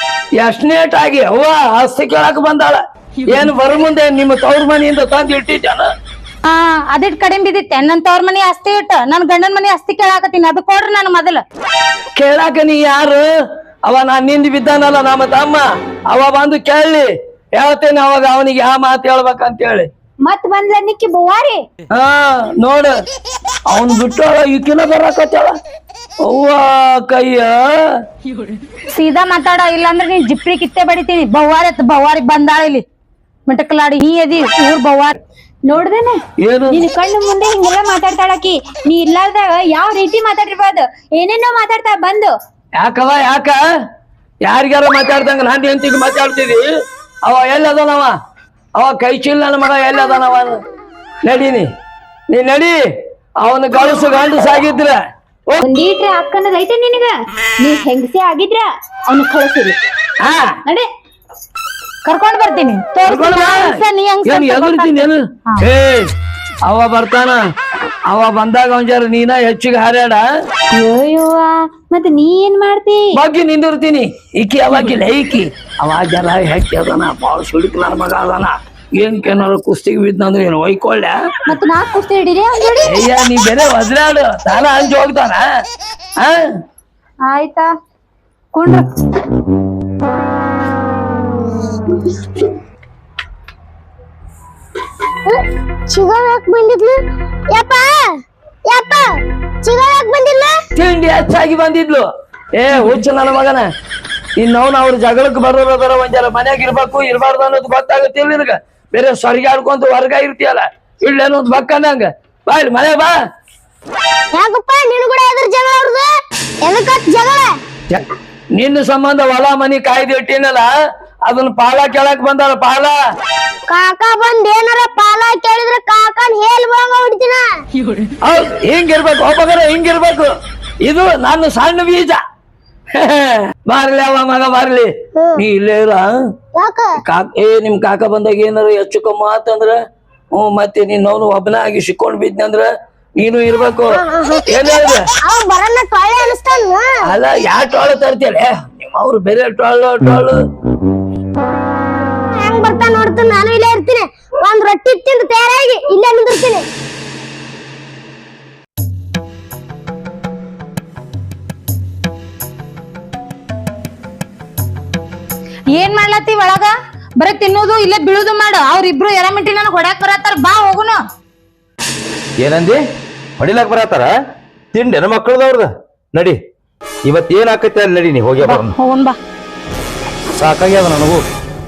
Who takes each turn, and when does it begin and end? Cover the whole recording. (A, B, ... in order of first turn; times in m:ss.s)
0:00.4-0:05.9 A
0:06.4-0:11.4 B
0:12.1-0:13.3 A
0:13.8-0:19.9 A
0:20.2-0:21.6 C
0:21.9-0:23.0 A
0:23.7-0:25.6 A
0:26.2-0:27.6 A
0:28.9-0:32.8 B
0:33.5-0:35.2 B
0:35.6-0:36.2 C
0:36.4-0:36.8 A
0:36.7-0:42.3 C
0:42.8-0:43.6 A
0:44.4-0:46.6 A
0:47.3-0:48.1 A
0:48.8-0:50.6 A
0:51.2-0:51.7 A
0:52.3-0:52.8 A
0:53.4-0:55.6 A
0:55.6-0:59.8 C
1:00.2-1:00.5 A
1:02.0-1:05.6 B
1:03.1-1:06.1 A
1:06.6-1:07.4 A
1:08.1-1:10.2 A
1:10.7-1:13.1 C
1:13.1-1:21.2 A
1:21.5-1:23.0 C
1:22.9-1:25.4 A
1:27.2-1:27.7 C
1:28.5-1:28.8 C
1:35.2-1:37.0 D
1:37.5-1:38.1 D
1:38.7-1:40.5 D
1:40.8-1:43.7 A
1:44.4-1:53.1 A
1:54.3-1:56.1 D
1:56.6-1:57.5 D
1:57.9-2:00.7 A
2:01.2-2:03.0 A
2:03.7-2:07.4 D
2:08.2-2:10.3 A
2:10.8-2:12.2 A
2:12.9-2:16.1 A
2:15.2-2:15.4 D
2:16.5-2:16.9 D
2:17.0-2:19.8 A
2:20.3-2:25.1 A
2:23.9-2:24.6 D
2:25.2-2:27.0 D
2:27.0-2:30.4 A
2:32.4-2:36.6 D
2:45.7-2:51.0 B
2:52.4-2:52.8 E
2:53.4-2:54.1 E
2:54.7-2:56.4 E
2:57.0-2:58.7 E
2:58.4-2:59.2 B
3:00.3-3:01.2 E